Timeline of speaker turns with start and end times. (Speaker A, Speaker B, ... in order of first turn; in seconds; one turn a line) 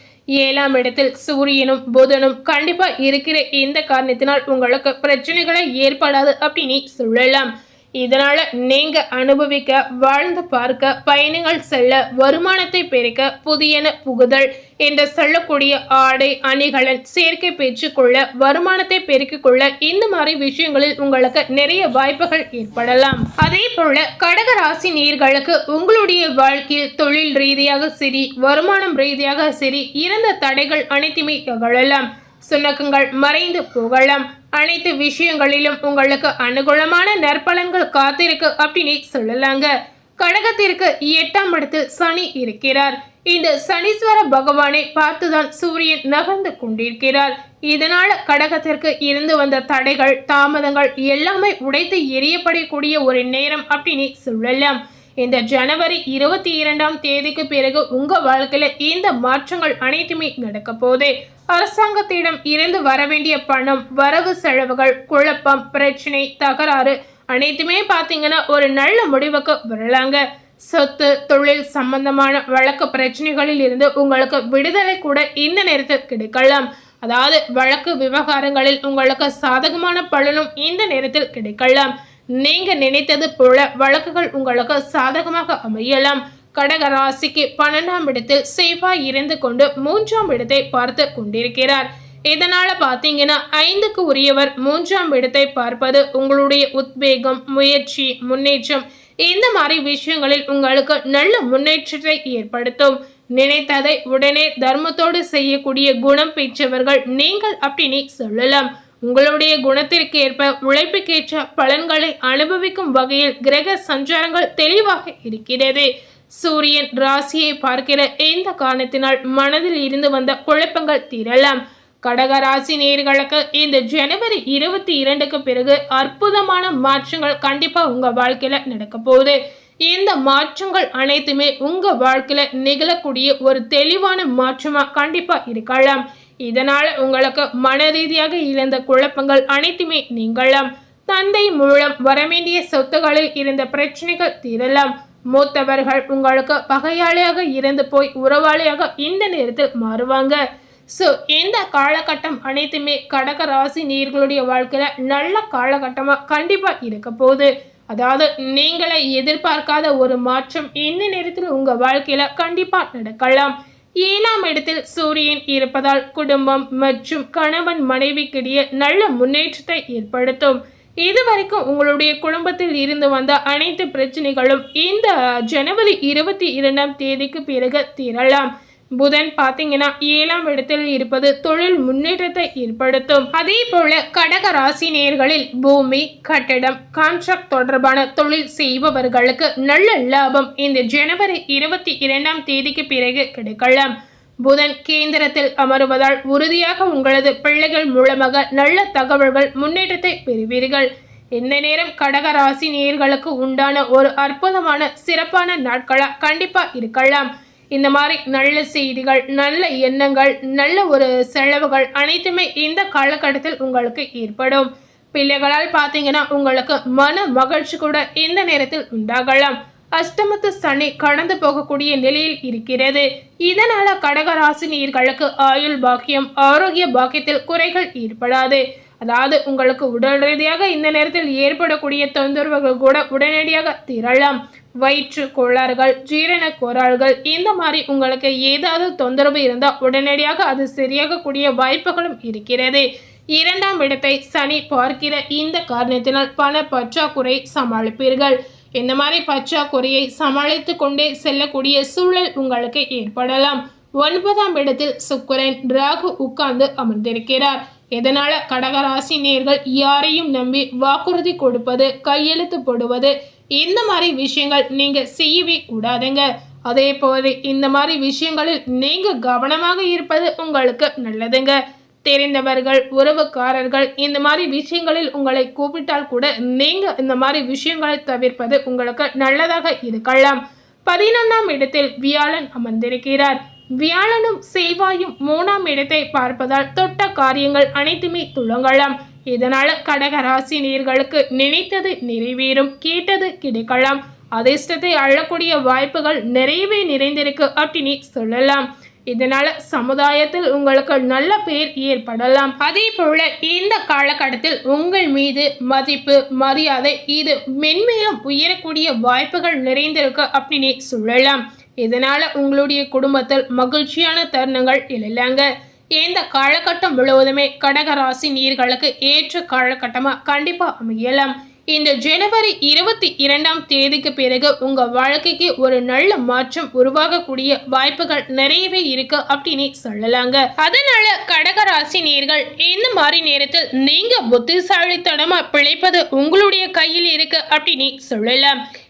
Speaker A: 0.4-150.4
Speaker A: 150.9-193.9
Speaker A: 194.4-315.5
Speaker A: 316.0-338.6